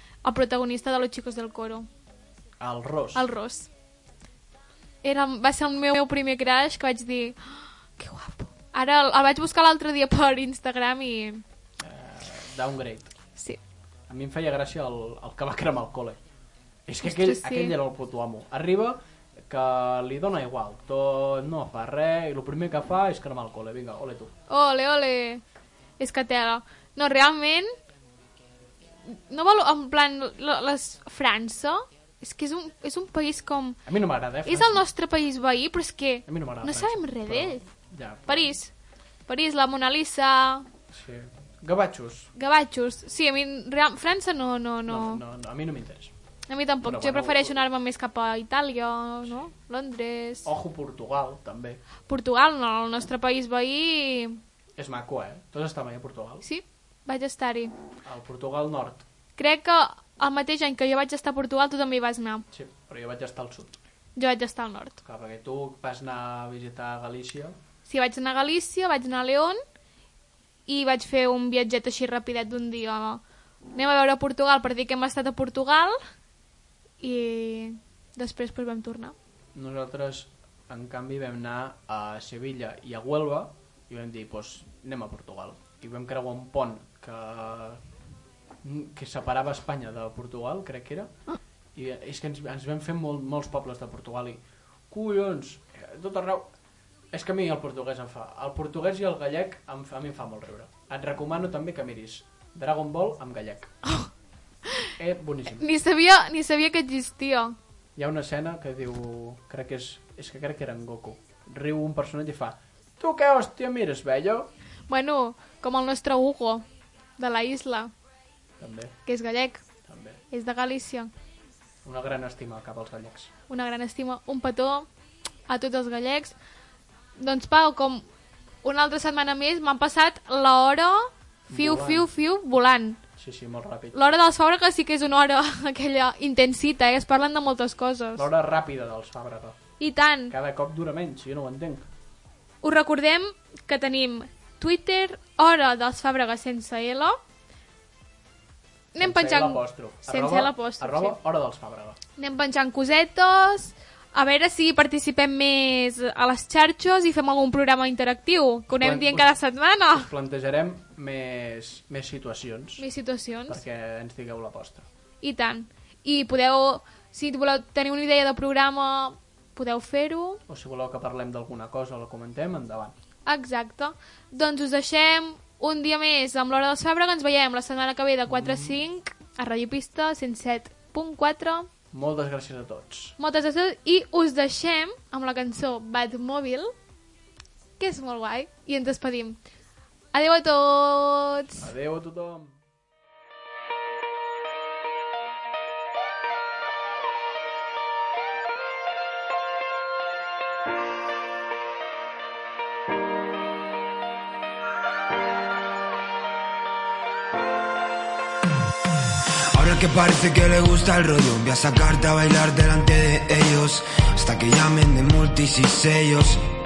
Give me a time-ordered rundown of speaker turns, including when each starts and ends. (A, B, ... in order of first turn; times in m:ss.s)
0:00.2-0:01.9 A
0:02.6-0:03.3 B
0:03.1-0:03.7 A
0:05.0-0:11.4 A
0:11.8-0:13.1 B
0:14.1-0:16.2 B
0:16.9-0:24.3 B
0:17.0-0:17.7 A
0:24.5-0:25.4 A
0:26.0-0:27.7 A
0:29.0-0:33.8 A
0:33.8-0:34.8 B
0:34.4-0:37.6 A
0:36.3-0:38.5 B
0:38.3-0:38.7 A
0:39.3-0:40.7 A
0:40.9-0:42.3 B
0:42.3-0:45.2 A
0:44.9-0:46.1 B
0:46.5-0:50.5 A
0:46.8-0:47.6 B
0:50.4-0:51.8 B
0:52.1-0:54.4 A
0:54.8-0:56.4 B
0:56.4-0:57.7 A
0:58.0-0:59.0 B
0:59.4-1:02.4 A
1:02.5-1:03.8 B
1:04.2-1:05.0 A
1:05.0-1:07.6 B
1:07.9-1:09.6 A
1:10.7-1:13.2 A
1:13.7-1:16.0 A
1:17.0-1:19.1 A
1:19.5-1:27.8 B
1:28.6-1:31.2 B
1:31.7-1:36.5 B
1:37.1-1:43.7 B
1:45.0-1:45.7 B
1:45.5-1:47.6 A
1:48.0-1:54.5 B
1:54.9-1:56.6 A
1:57.2-1:57.9 A
1:58.6-1:58.9 B
1:59.0-1:59.6 A
1:59.8-2:00.2 B
2:00.3-2:01.1 A
2:01.8-2:03.3 B
2:03.5-2:04.9 A
2:05.5-2:06.3 A
2:07.2-2:08.0 A
2:08.6-2:13.0 A
2:11.5-2:12.1 B
2:13.2-2:14.0 B
2:13.9-2:18.2 A
2:18.1-2:19.6 B
2:19.8-2:20.3 A
2:20.3-2:21.9 B
2:22.6-2:27.2 A
2:28.9-2:31.2 A
2:29.0-2:32.0 B
2:32.2-2:40.1 A
2:38.7-2:39.4 B
2:39.9-2:42.9 B
2:42.8-2:43.6 A
2:43.5-2:44.9 B
2:45.2-2:50.4 A
2:50.5-2:52.9 B
2:53.2-3:01.7 A
2:58.3-2:58.8 B
3:01.9-3:03.2 B
3:03.2-3:06.7 A
3:07.8-3:09.4 A
3:10.1-3:11.6 A
3:11.6-3:12.6 B
3:29.5-3:36.4 C